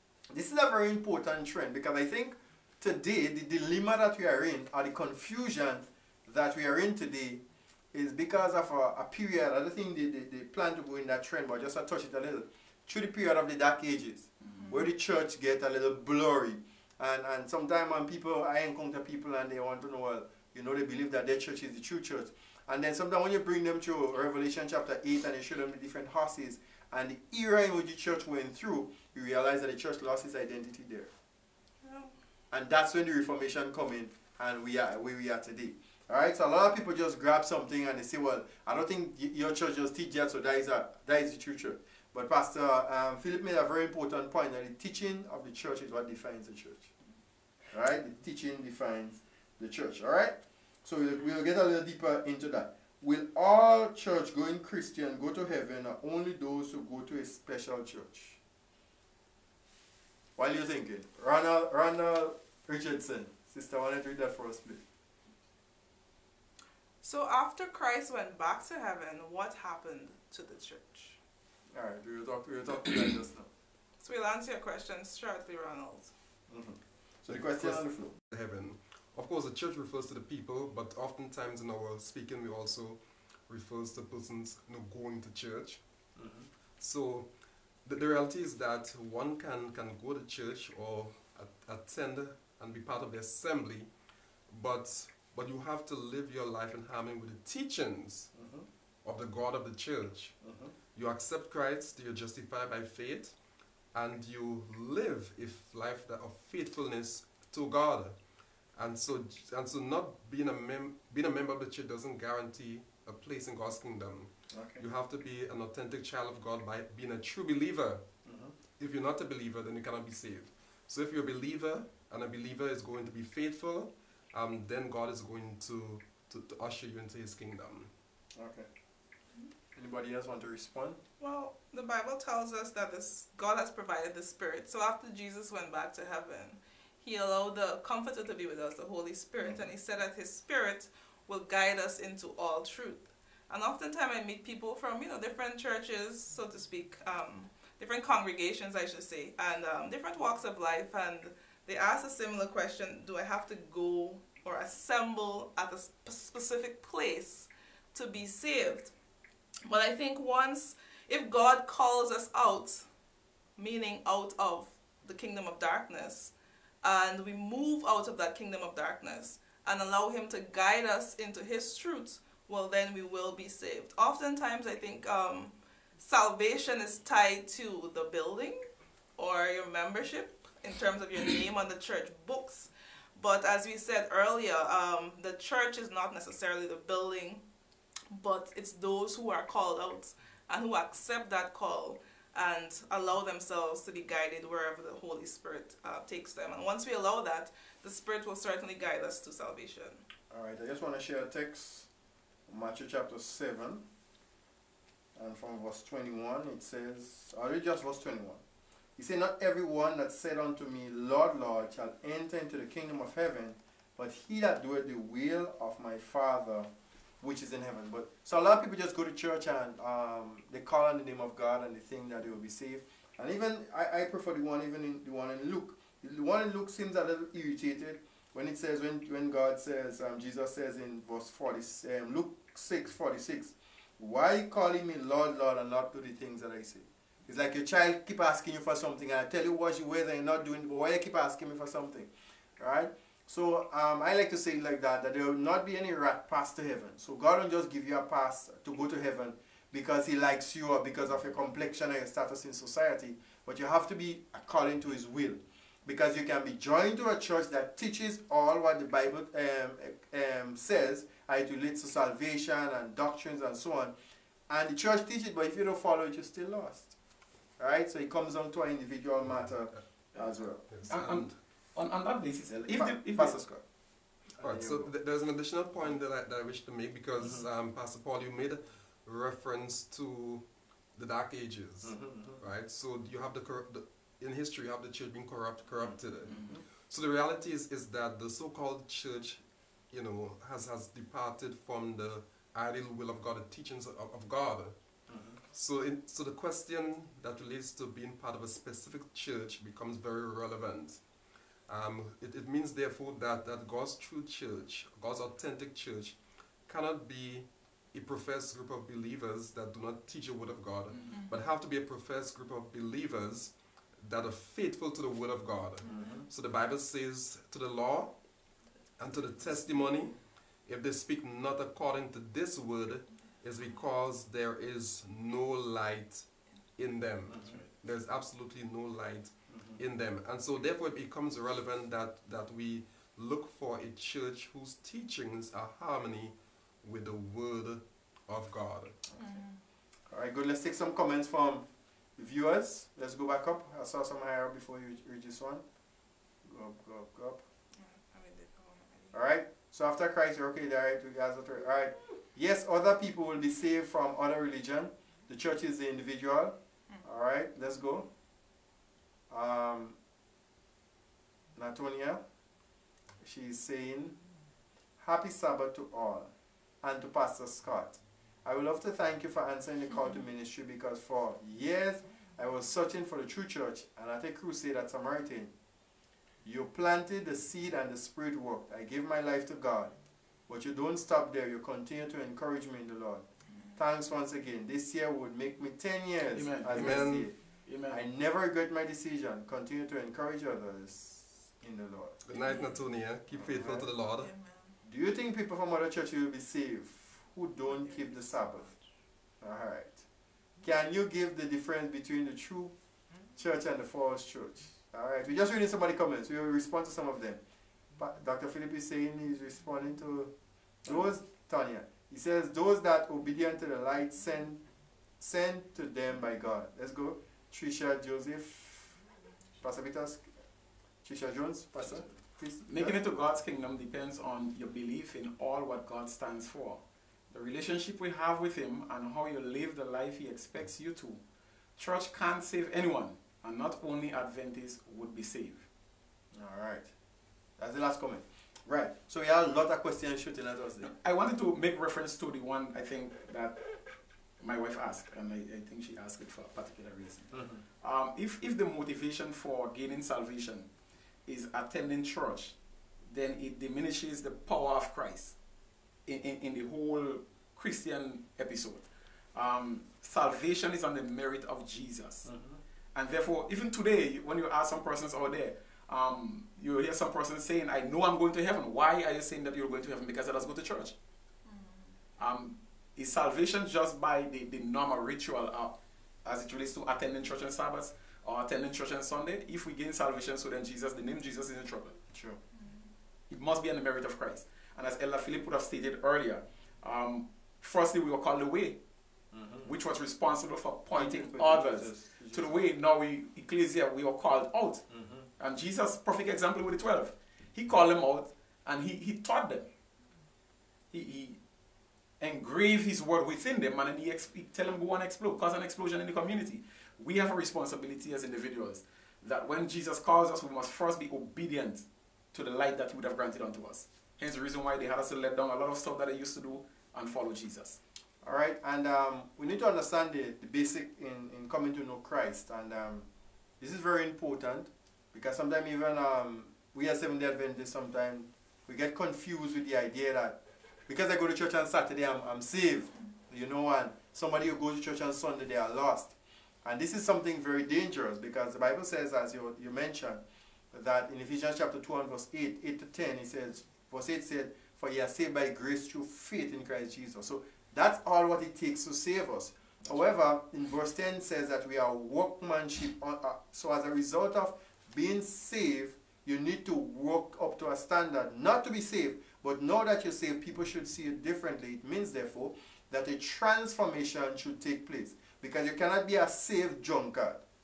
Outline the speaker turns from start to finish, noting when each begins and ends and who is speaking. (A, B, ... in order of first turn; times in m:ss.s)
0:00.3-0:31.1 A
0:31.8-0:32.2 B
0:32.5-0:46.9 A
0:47.7-0:58.4 A
1:00.4-1:04.8 A
1:07.0-1:11.2 B
1:11.7-1:13.5 A
1:14.0-1:16.1 B
1:16.5-1:18.2 A
1:17.3-1:25.8 C
1:26.2-1:26.5 A
1:26.8-1:27.3 C
1:27.9-1:33.9 C
1:34.5-1:38.3 C
1:38.3-1:38.7 A
1:39.0-1:40.4 C
1:40.4-1:40.7 A
1:40.9-1:43.4 C
1:43.9-1:48.2 C
1:48.8-1:58.0 C
1:54.5-1:54.8 A
1:58.2-1:58.6 A
1:58.8-2:07.9 C
2:08.4-2:08.7 A
2:09.7-2:11.0 A
2:11.2-2:38.9 B
2:39.7-2:42.8 B
2:43.6-2:58.6 B
2:59.2-3:07.4 B
3:08.1-3:20.0 B
3:20.3-3:21.9 A
3:22.5-3:23.8 A
3:25.2-3:28.4 A
3:29.0-3:36.7 A
3:37.2-4:23.9 A
4:24.5-4:26.9 A
4:27.6-4:30.6 A
4:30.2-4:33.4 D
4:30.7-4:31.3 C
4:32.5-4:33.6 A
4:34.4-4:34.9 A
4:34.4-4:54.8 C
4:37.2-4:37.4 A
4:41.8-4:42.4 A
4:45.8-4:46.6 A
4:55.1-4:55.4 A
4:55.5-5:01.0 C
5:01.7-5:18.1 C
5:10.9-5:11.2 D
5:15.9-5:16.3 A
5:19.0-5:20.1 C
5:20.7-5:26.2 C
5:26.8-5:39.0 C
5:27.3-5:27.6 A
5:29.5-5:29.8 A
5:39.2-5:39.6 B
5:40.1-5:45.6 A
5:46.4-5:47.4 A
5:47.8-5:49.2 B
5:49.1-5:58.1 A
5:59.3-6:00.0 A
6:01.6-6:02.2 A
6:03.2-6:04.2 A
6:05.0-6:06.3 A
6:06.8-6:15.5 A
6:16.4-6:20.0 A
6:20.5-6:27.3 A
6:26.3-6:27.2 D
6:26.7-6:27.3 C
6:27.7-6:28.0 D
6:27.9-6:32.2 A
6:32.2-6:34.3 C
6:32.4-6:32.8 B
6:33.4-6:33.9 A
6:34.2-6:34.7 B
6:34.8-6:38.7 A
6:37.7-6:38.7 B
6:39.4-6:40.0 A
6:40.6-6:42.7 A
6:43.4-6:47.4 A
6:48.0-6:50.3 A
6:50.8-6:54.6 A
6:55.2-6:59.0 A
6:59.6-7:00.2 A
7:01.0-7:03.0 A
7:02.6-7:06.8 D
7:07.3-7:11.2 D
7:11.8-7:15.7 D
7:16.3-7:16.9 A
7:17.6-7:20.9 A
7:20.9-7:23.6 D
7:24.4-7:30.7 D
7:27.3-7:27.6 A
7:31.3-7:32.6 D
7:33.1-7:35.4 D
7:36.1-7:42.3 D
7:42.2-7:42.6 A
7:43.0-7:51.0 D
7:51.5-7:51.9 B
7:52.2-8:02.0 D
8:02.1-8:02.4 A
8:02.6-8:02.9 B
8:03.3-8:08.8 D
8:09.3-8:09.7 A
8:09.6-8:14.8 D
8:10.9-8:12.6 A
8:14.9-8:15.3 A
8:15.4-8:19.7 D
8:20.9-8:21.4 D
8:22.2-8:37.8 D
8:38.2-8:43.1 A
8:43.6-9:27.4 A